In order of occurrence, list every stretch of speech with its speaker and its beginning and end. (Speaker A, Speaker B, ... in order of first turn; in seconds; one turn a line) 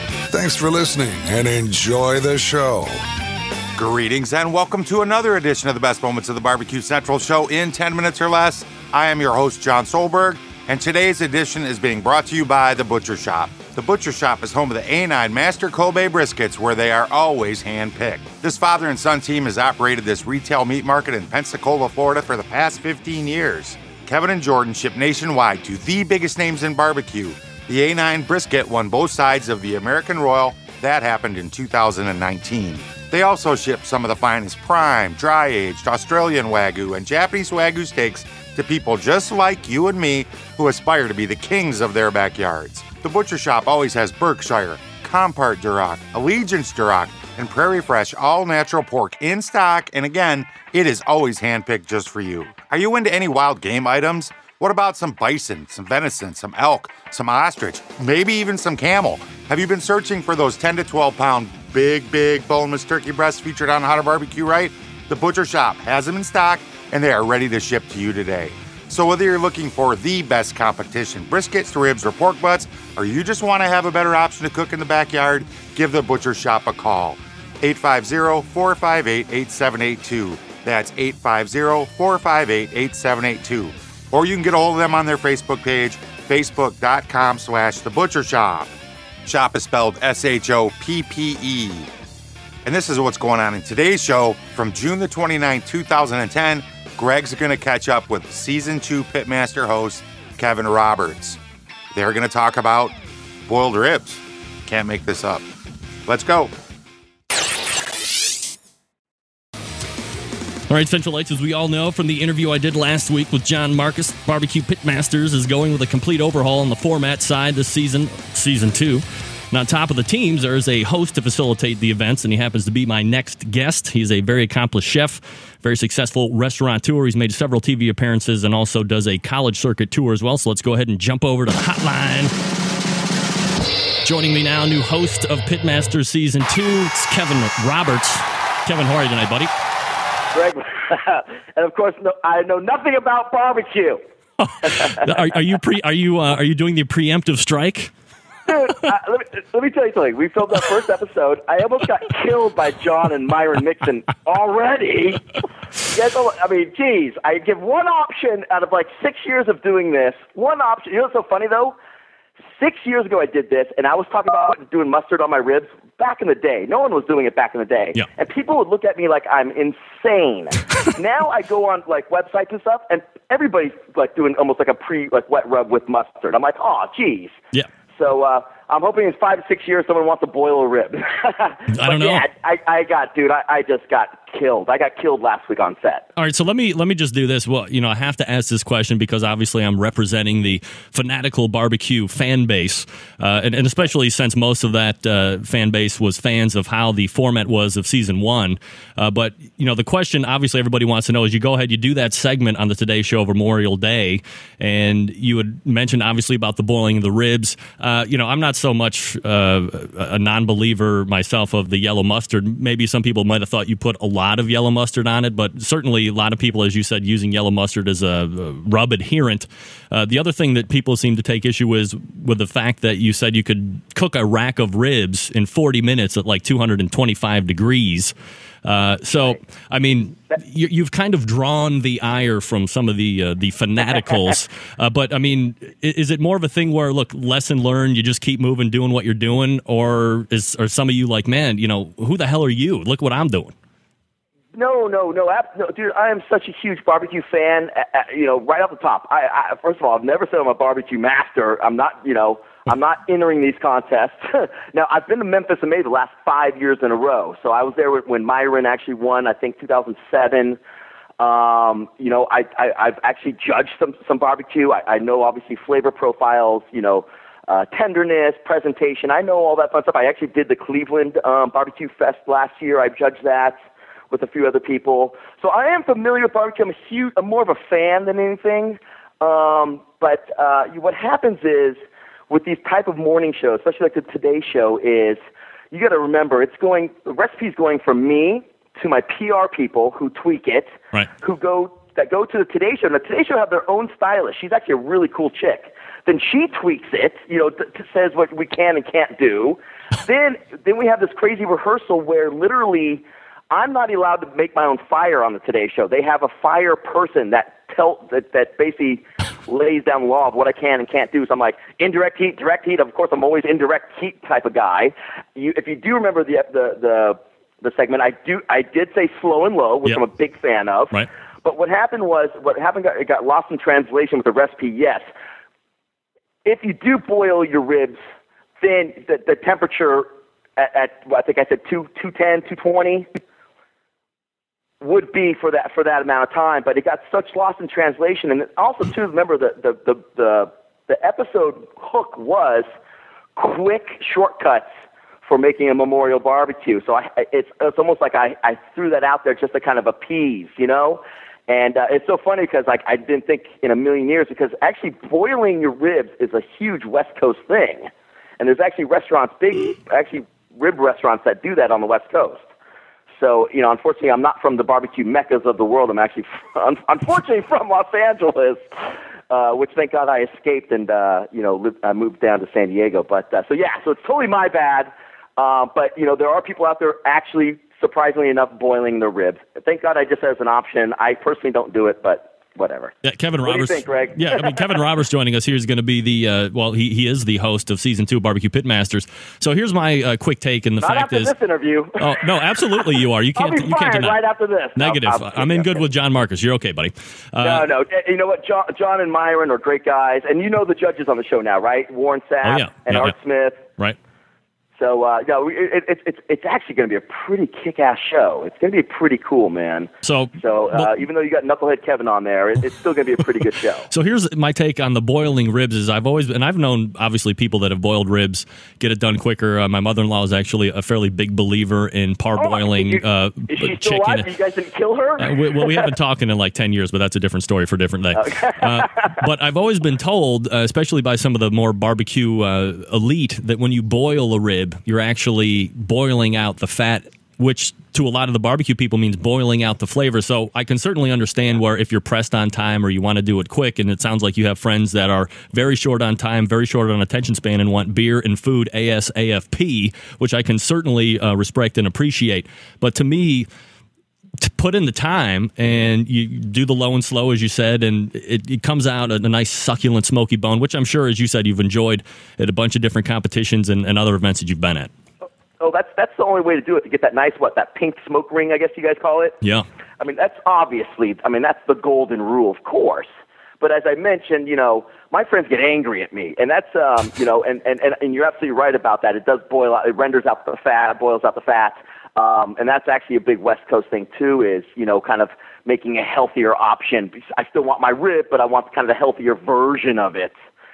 Speaker A: 0.3-3.0
Speaker B: 3.8-88.7
Speaker B: 89.2-91.9
Speaker B: 92.6-101.4
Speaker B: 101.9-102.9
Speaker B: 103.5-105.4
Speaker B: 106.0-106.5
Speaker C: 110.7-132.3
Speaker C: 134.0-139.5
Speaker D: 140.3-144.0
Speaker C: 144.4-147.9
Speaker D: 144.8-145.1
Speaker D: 148.5-155.2
Speaker D: 155.8-161.7
Speaker D: 162.5-177.4
Speaker D: 177.9-186.1
Speaker C: 181.7-182.2
Speaker C: 186.2-228.1
Speaker C: 228.6-243.5
Speaker D: 244.5-260.6
Speaker D: 261.2-273.6
Speaker D: 274.1-281.8
Speaker D: 282.3-285.2
Speaker D: 285.7-325.0
Speaker D: 326.4-328.0
Speaker D: 328.6-333.1
Speaker D: 334.8-342.6
Speaker D: 343.4-344.7
Speaker D: 345.2-362.4
Speaker D: 363.1-384.8
Speaker C: 383.0-391.3
Speaker D: 390.8-395.9
Speaker C: 392.0-394.2
Speaker C: 394.8-397.6
Speaker D: 397.4-403.6
Speaker C: 402.4-403.1
Speaker D: 404.8-413.9
Speaker C: 410.0-410.9
Speaker C: 413.9-424.2
Speaker D: 422.4-425.9
Speaker C: 425.2-453.5
Speaker D: 428.1-429.2
Speaker C: 454.4-464.9
Speaker D: 465.6-469.4
Speaker D: 470.0-473.1
Speaker D: 473.6-490.3